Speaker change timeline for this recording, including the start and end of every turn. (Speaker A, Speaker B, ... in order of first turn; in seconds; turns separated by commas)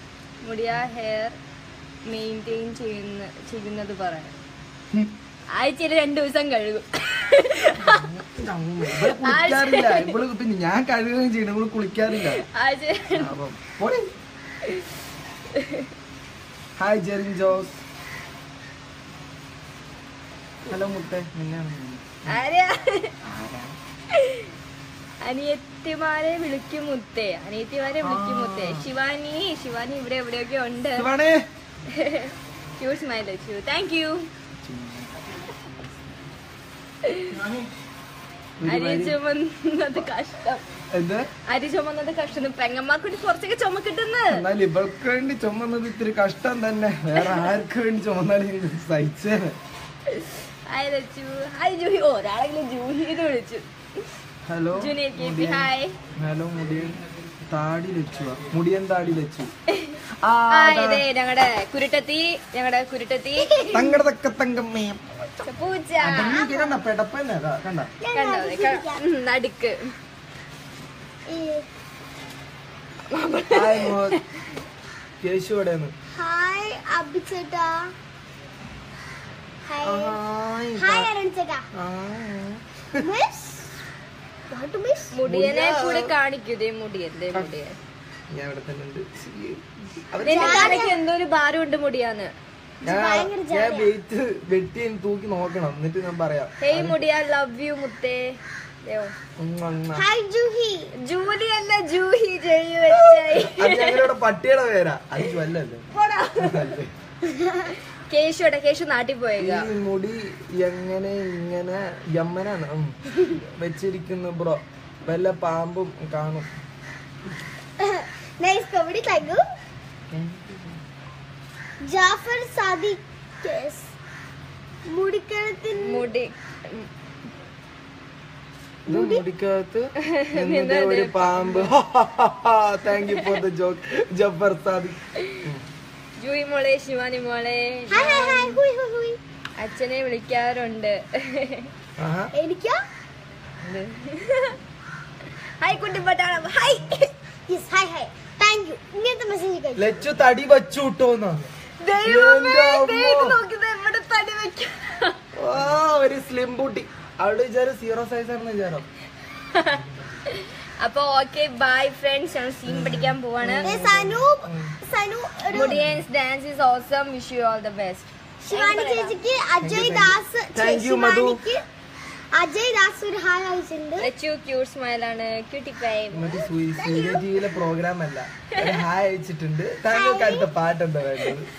Speaker A: 0.4-1.4, Speaker A: 2.0-4.3, Speaker A: 5.5-8.1, Speaker B: 7.8-12.4, Speaker A: 8.9-10.2, Speaker A: 12.1-13.3, Speaker B: 13.1-14.1, Speaker A: 15.5-15.9, Speaker B: 16.8-17.8, Speaker B: 20.6-22.4, Speaker A: 22.2-23.1, Speaker B: 23.2-23.7, Speaker A: 24.1-24.5, Speaker A: 25.2-31.1, Speaker B: 28.0-28.9, Speaker B: 30.9-31.4, Speaker A: 31.9-34.3, Speaker B: 34.6-35.8, Speaker A: 37.0-37.3, Speaker B: 37.3-37.7, Speaker B: 38.6-39.2, Speaker A: 38.6-40.6, Speaker B: 40.9-41.3, Speaker A: 41.5-44.4, Speaker B: 44.3-49.6, Speaker A: 47.1-47.5, Speaker A: 50.1-53.7, Speaker B: 54.5-59.5, Speaker A: 54.8-56.0, Speaker A: 59.7-63.7, Speaker B: 60.2-61.0, Speaker C: 63.4-64.0, Speaker B: 63.7-65.2, Speaker A: 65.4-66.4, Speaker B: 66.0-67.9, Speaker C: 66.1-66.7, Speaker C: 68.0-69.0, Speaker A: 68.1-69.9, Speaker C: 71.3-71.7, Speaker A: 73.1-74.2, Speaker B: 73.5-74.2, Speaker B: 75.2-75.9, Speaker C: 76.1-77.9, Speaker C: 79.6-80.2, Speaker B: 79.8-81.1, Speaker C: 80.7-81.7, Speaker B: 81.7-83.1, Speaker C: 83.0-83.6, Speaker C: 84.5-85.2, Speaker A: 85.1-87.7, Speaker B: 85.3-86.1, Speaker B: 88.3-90.9, Speaker A: 90.2-92.3, Speaker C: 90.3-91.0, Speaker C: 92.8-93.9, Speaker B: 92.8-97.0, Speaker A: 96.6-99.1, Speaker B: 99.4-100.1, Speaker C: 99.9-100.9, Speaker A: 101.0-104.0, Speaker B: 102.9-106.9, Speaker A: 105.9-106.7, Speaker C: 107.3-107.7, Speaker A: 108.1-109.7, Speaker B: 109.4-116.5, Speaker C: 117.8-119.4, Speaker B: 120.1-120.8, Speaker C: 121.8-123.9, Speaker C: 124.9-126.0, Speaker A: 125.7-126.9, Speaker B: 128.9-135.6, Speaker C: 128.9-129.2, Speaker A: 130.1-131.7, Speaker A: 133.0-133.3, Speaker A: 136.2-138.6, Speaker C: 137.9-139.2, Speaker A: 139.6-141.7, Speaker B: 142.0-142.3, Speaker C: 142.3-142.8, Speaker A: 143.6-144.6, Speaker A: 145.6-147.1, Speaker C: 147.5-149.9, Speaker B: 149.8-151.4, Speaker A: 151.8-155.2, Speaker B: 152.0-153.4, Speaker B: 155.3-158.8, Speaker A: 159.5-163.8, Speaker B: 162.6-164.7, Speaker C: 163.6-165.7, Speaker B: 165.5-166.0, Speaker A: 165.5-169.1, Speaker C: 168.4-171.6, Speaker B: 169.6-171.4, Speaker C: 172.3-174.1, Speaker A: 174.0-176.4, Speaker B: 176.1-181.5, Speaker C: 176.8-177.2, Speaker C: 179.9-180.5